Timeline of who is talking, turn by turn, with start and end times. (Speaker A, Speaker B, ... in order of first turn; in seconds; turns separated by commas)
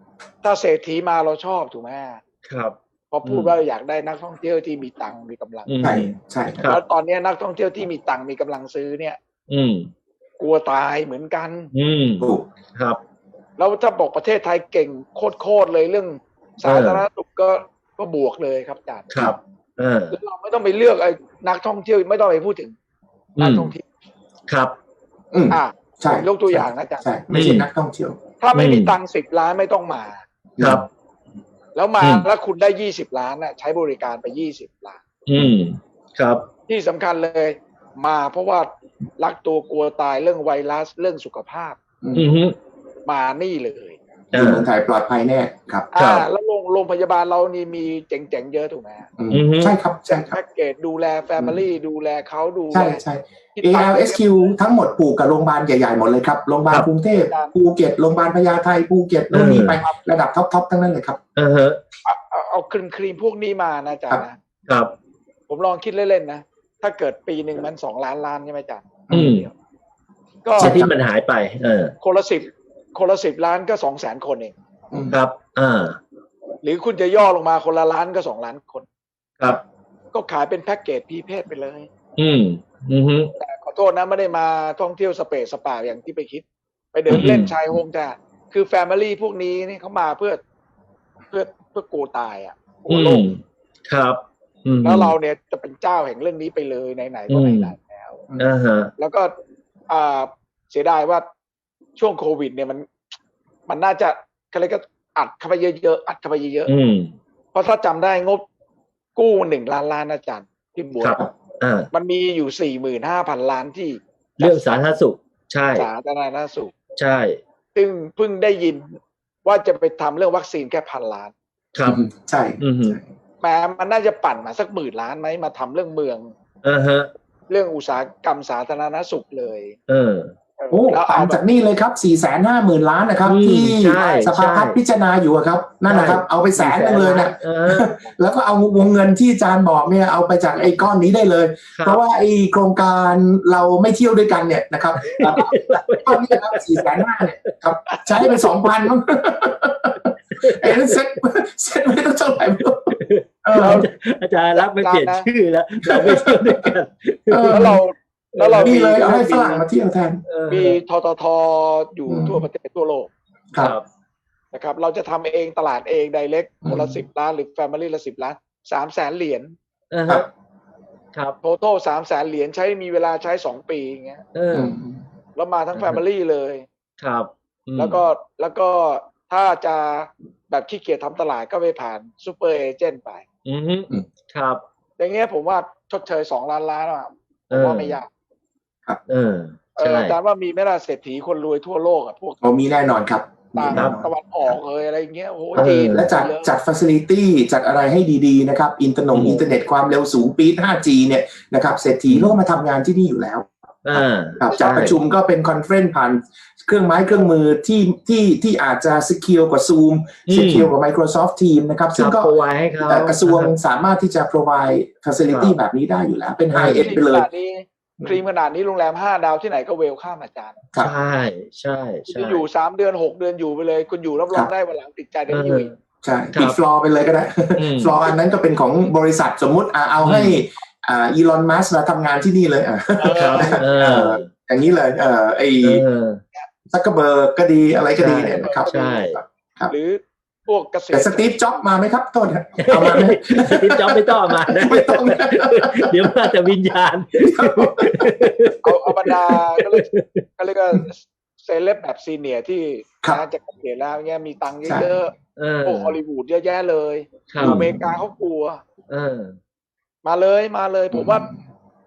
Speaker A: 0.4-2.2, Speaker B: 2.4-3.5, Speaker A: 3.1-5.8, Speaker B: 5.7-6.8, Speaker C: 5.8-6.7, Speaker A: 6.7-9.2, Speaker B: 9.5-9.9, Speaker A: 10.4-11.7, Speaker B: 11.7-13.0, Speaker C: 12.2-12.5, Speaker A: 13.6-19.1, Speaker B: 16.6-17.0, Speaker B: 19.1-20.2, Speaker A: 20.1-22.7, Speaker B: 23.4-23.7, Speaker A: 23.4-23.8, Speaker B: 24.5-24.8, Speaker C: 25.3-28.2, Speaker A: 25.5-27.1, Speaker B: 27.3-27.7, Speaker A: 28.4-30.2, Speaker B: 28.5-28.9, Speaker C: 30.6-30.9, Speaker B: 30.6-30.9, Speaker A: 31.7-35.0, Speaker B: 32.0-32.2, Speaker B: 35.3-36.4, Speaker A: 36.7-41.8, Speaker C: 42.0-42.3, Speaker B: 42.1-42.5, Speaker A: 43.0-44.0, Speaker C: 44.3-45.9, Speaker B: 44.3-44.7, Speaker A: 45.9-49.1, Speaker B: 46.0-46.3, Speaker C: 49.2-50.4, Speaker B: 49.3-49.8, Speaker A: 50.1-53.0, Speaker C: 52.7-61.2, Speaker A: 53.5-54.5, Speaker A: 57.2-57.5, Speaker B: 59.3-59.8, Speaker B: 61.4-61.8, Speaker A: 62.0-64.4, Speaker B: 64.7-64.9, Speaker A: 65.5-69.0, Speaker C: 69.1-69.4, Speaker B: 69.1-69.5, Speaker A: 70.4-70.8, Speaker C: 70.6-70.9, Speaker B: 70.6-71.9, Speaker A: 72.0-74.5, Speaker C: 74.9-75.2, Speaker B: 75.1-76.0, Speaker A: 76.6-78.9, Speaker A: 80.1-81.9, Speaker B: 82.2-83.3, Speaker A: 83.4-90.4, Speaker B: 87.1-87.5, Speaker A: 91.3-93.3, Speaker B: 92.9-95.1, Speaker A: 94.8-98.2, Speaker B: 97.3-97.7, Speaker B: 98.4-98.9, Speaker A: 99.0-99.3, Speaker A: 99.9-101.2, Speaker A: 102.0-102.9, Speaker A: 103.7-106.7, Speaker B: 106.7-107.2, Speaker A: 107.5-108.4, Speaker A: 109.2-111.2, Speaker B: 111.0-111.9, Speaker A: 111.9-114.9, Speaker B: 114.4-115.9, Speaker A: 115.8-116.7, Speaker B: 117.0-117.4, Speaker A: 117.7-121.3, Speaker B: 121.7-122.0, Speaker C: 121.8-123.0, Speaker B: 122.6-123.0, Speaker A: 123.4-126.3, Speaker B: 126.6-127.1, Speaker A: 127.5-129.8, Speaker B: 129.9-130.3, Speaker A: 130.6-131.4, Speaker C: 130.7-152.9, Speaker B: 133.2-134.8, Speaker B: 135.8-137.9, Speaker B: 141.7-142.0, Speaker B: 145.0-147.0, Speaker A: 147.9-148.5, Speaker B: 150.3-151.0, Speaker B: 152.9-157.8, Speaker C: 153.4-153.8, Speaker A: 153.6-153.9, Speaker A: 154.6-155.3, Speaker C: 155.9-156.7, Speaker C: 157.3-157.8, Speaker A: 157.5-159.6, Speaker B: 158.3-159.6, Speaker C: 158.5-160.2, Speaker B: 160.3-160.8, Speaker A: 160.5-163.1, Speaker C: 162.1-162.4, Speaker B: 163.6-163.8, Speaker A: 164.5-169.5, Speaker C: 166.6-167.0, Speaker B: 169.9-170.3, Speaker A: 171.4-174.2, Speaker B: 174.3-174.7, Speaker C: 174.5-175.0, Speaker A: 175.3-176.7, Speaker B: 175.7-176.0, Speaker B: 177.0-178.0, Speaker A: 177.8-183.2, Speaker B: 183.4-184.6, Speaker A: 185.0-188.1, Speaker B: 187.5-188.0, Speaker B: 189.1-190.2, Speaker A: 189.8-192.4, Speaker C: 192.4-194.1, Speaker A: 193.5-196.5, Speaker B: 193.7-194.0, Speaker C: 195.5-212.3, Speaker B: 195.6-196.2, Speaker B: 199.1-199.5, Speaker B: 202.1-202.4, Speaker B: 203.8-205.0, Speaker A: 204.5-204.9, Speaker B: 210.3-210.7, Speaker B: 211.9-213.5, Speaker C: 212.8-217.3, Speaker B: 215.3-215.6, Speaker B: 216.5-216.9, Speaker A: 216.7-220.6, Speaker B: 220.8-222.4, Speaker A: 222.1-225.7, Speaker B: 225.3-225.8, Speaker C: 226.0-235.8, Speaker B: 226.3-226.6, Speaker B: 227.6-228.0, Speaker B: 230.0-230.4, Speaker A: 233.0-233.7, Speaker B: 233.1-234.3, Speaker B: 235.6-236.2, Speaker C: 236.7-239.7, Speaker B: 238.0-239.2, Speaker A: 238.4-241.7, Speaker C: 240.9-246.3, Speaker B: 242.6-250.2, Speaker C: 247.2-248.3, Speaker A: 248.6-249.8, Speaker A: 250.4-255.1, Speaker C: 254.7-255.0, Speaker B: 255.4-256.0, Speaker A: 255.7-258.6, Speaker B: 257.3-257.6, Speaker C: 257.4-258.0, Speaker B: 258.9-259.4, Speaker A: 260.0-261.3, Speaker C: 260.9-261.4